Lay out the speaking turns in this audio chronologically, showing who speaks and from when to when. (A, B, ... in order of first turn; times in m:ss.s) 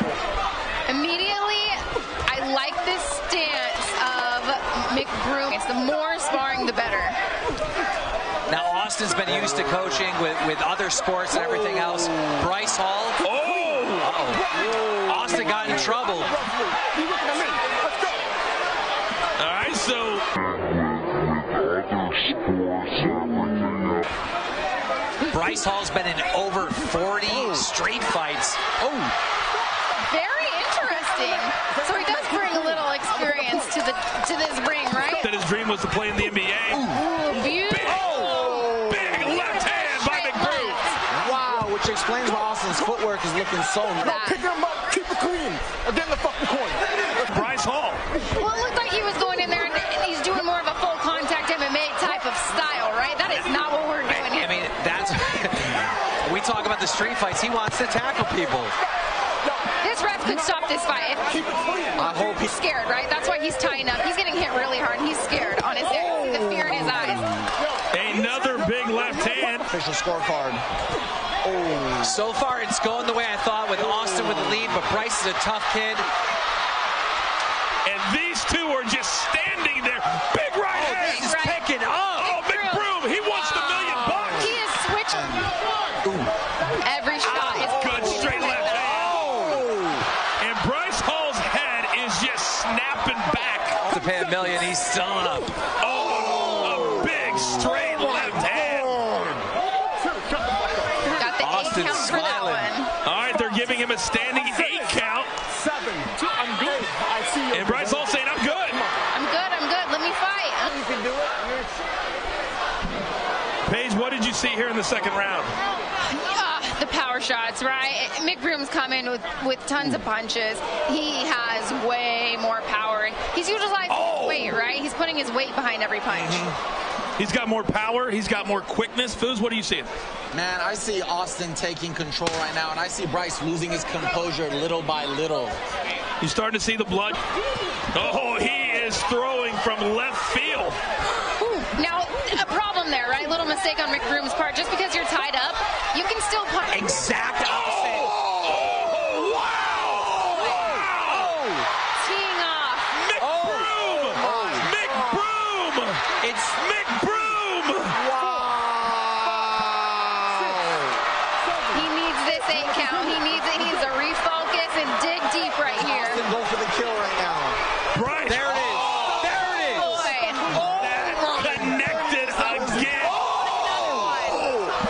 0:00.9-0:07.2 A
0:08.5-0:13.2 B
0:13.2-0:14.1 C
0:14.0-0:16.4 B
0:16.6-0:18.1 D
0:19.4-0:20.2 C
0:25.3-0:29.1 B
0:30.1-0:35.3 A
0:35.2-0:40.8 C
0:36.7-0:41.0 A
0:38.2-0:38.4 D
0:41.1-0:44.2 E
0:44.0-0:44.5 A
0:44.0-0:46.8 D
0:47.3-0:48.0 C
0:48.4-0:54.5 A
0:54.1-0:58.7 B
0:59.8-1:01.4 A
1:01.9-1:02.5 E
1:02.1-1:07.4 A
1:07.9-1:09.7 C
1:09.7-1:10.6 E
1:11.4-1:12.2 E
1:12.0-1:16.1 B
1:17.8-1:21.3 C
1:20.7-1:22.4 B
1:20.8-1:21.6 A
1:22.2-1:24.6 C
1:22.4-1:25.5 A
1:26.0-1:26.3 B
1:26.8-1:29.0 A
1:27.2-1:29.4 C
1:28.2-1:30.0 E
1:29.1-1:29.6 B
1:30.4-1:33.8 C
1:33.8-1:35.5 B
1:35.8-1:39.2 C
1:40.0-1:40.6 D
1:41.0-1:42.9 A
1:41.4-1:42.7 B
1:43.0-1:45.3 C
1:45.5-1:48.1 D
1:47.5-1:48.9 C
1:49.1-1:51.0 A
1:53.6-1:55.5 C
1:56.1-2:06.5 A
2:03.9-2:04.6 C
2:06.1-2:06.5 C
2:07.2-2:09.9 C
2:10.3-2:15.6 E
2:16.2-2:17.2 C
2:17.9-2:20.8 C
2:21.4-2:27.0 A
2:26.7-2:28.1 B
2:27.4-2:31.4 C
2:31.1-2:31.6 B
2:32.0-2:32.9 A
2:32.9-2:38.0 C
2:33.2-2:34.6 B
2:36.2-2:36.6 B
2:37.9-2:41.0 E
2:41.7-2:46.2 A
2:45.7-2:47.6 E
2:47.9-2:48.9 C
2:48.2-2:50.1 B
2:48.9-2:49.4 E
2:49.6-2:50.6 A
2:50.5-2:53.2 C
2:50.6-2:51.9 E
2:52.4-2:54.7 E
2:53.7-2:54.5 A